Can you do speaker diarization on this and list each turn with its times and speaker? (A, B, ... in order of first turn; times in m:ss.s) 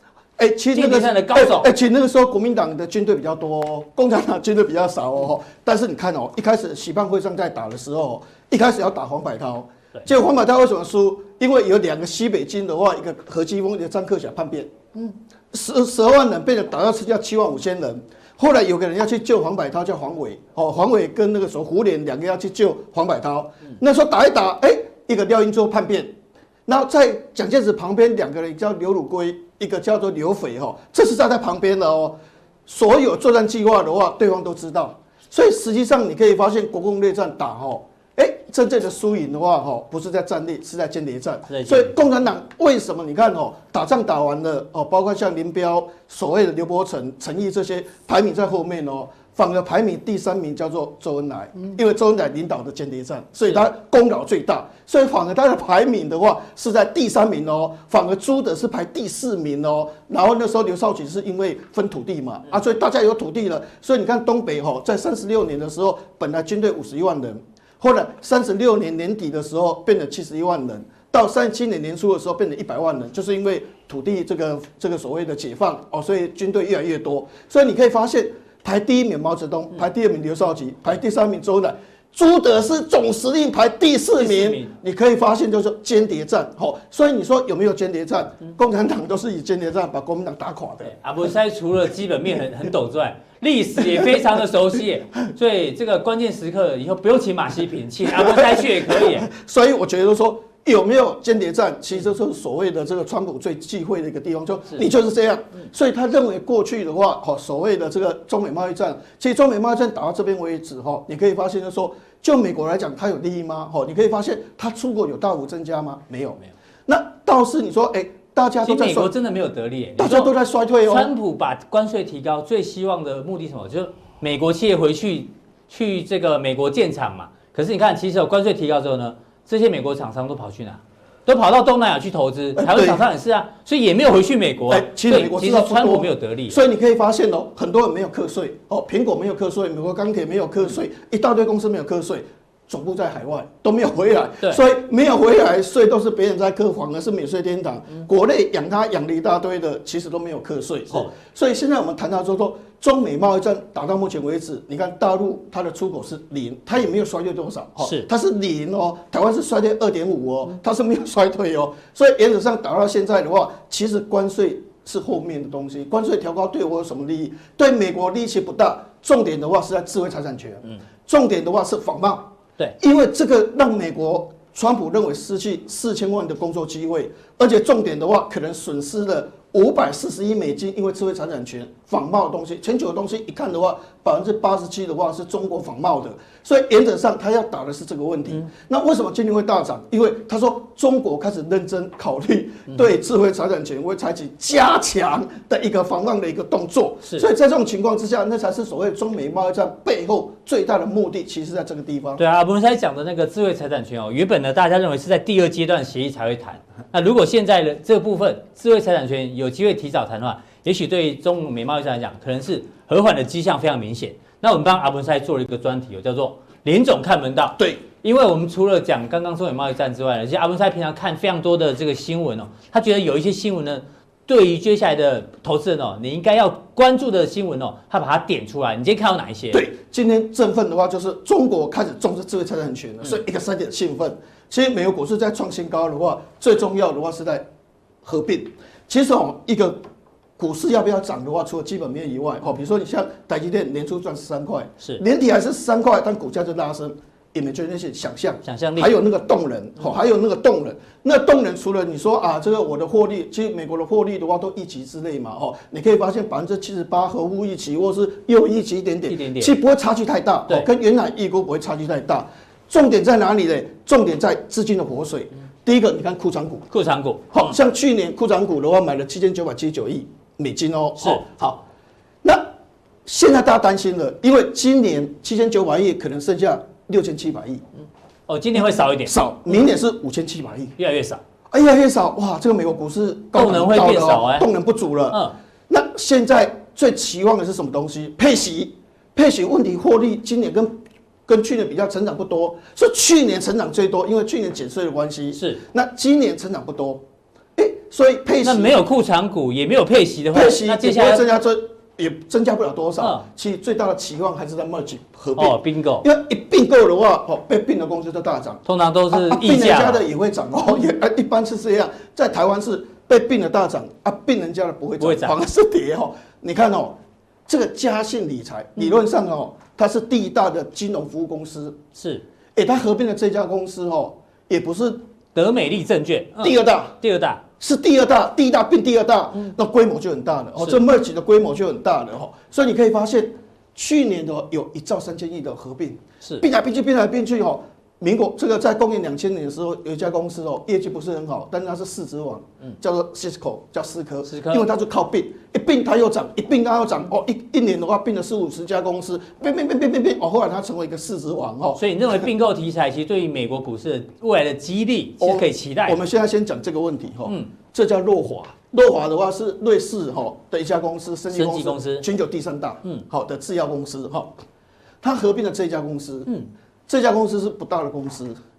0:00.4-1:31.0 A
0:00.7-0:01.7 B
0:41.5-0:42.0 B
1:24.2-1:24.7 B
1:30.8-1:39.3 B
1:38.0-1:59.1 A
1:58.6-2:16.6 B
2:00.0-2:01.1 A
2:12.6-2:13.0 A
2:14.7-3:22.2 A
2:37.8-2:38.1 B
3:22.2-3:49.7 B
3:49.5-3:57.5 A
3:58.0-3:59.8 A
4:00.4-4:26.7 A
4:08.4-4:08.9 B
4:19.1-4:19.6 B
4:26.7-4:27.6 B
4:27.3-4:31.6 A
4:32.2-4:32.5 A
4:33.0-4:37.6 A
4:38.3-4:39.2 B
4:39.0-4:40.8 A
4:40.8-4:41.2 B
4:41.5-4:57.0 A
4:43.3-4:44.5 B
4:45.1-4:45.4 B
4:55.4-4:55.6 B
4:57.6-4:58.8 A
4:58.4-5:01.2 B
5:00.3-5:21.8 A
5:03.0-5:03.3 B
5:05.4-5:06.1 B
5:08.7-5:10.1 B
5:15.0-5:15.4 B
5:22.0-5:22.2 B
5:22.6-5:25.0 A
5:25.4-5:27.4 B
5:26.4-5:27.0 A
5:27.6-5:52.3 A
5:30.6-5:30.8 B
5:44.3-5:44.7 B
5:51.8-5:56.0 B
5:55.2-6:04.4 A
6:01.3-6:02.1 B
6:05.0-6:06.3 A
6:06.9-6:08.4 A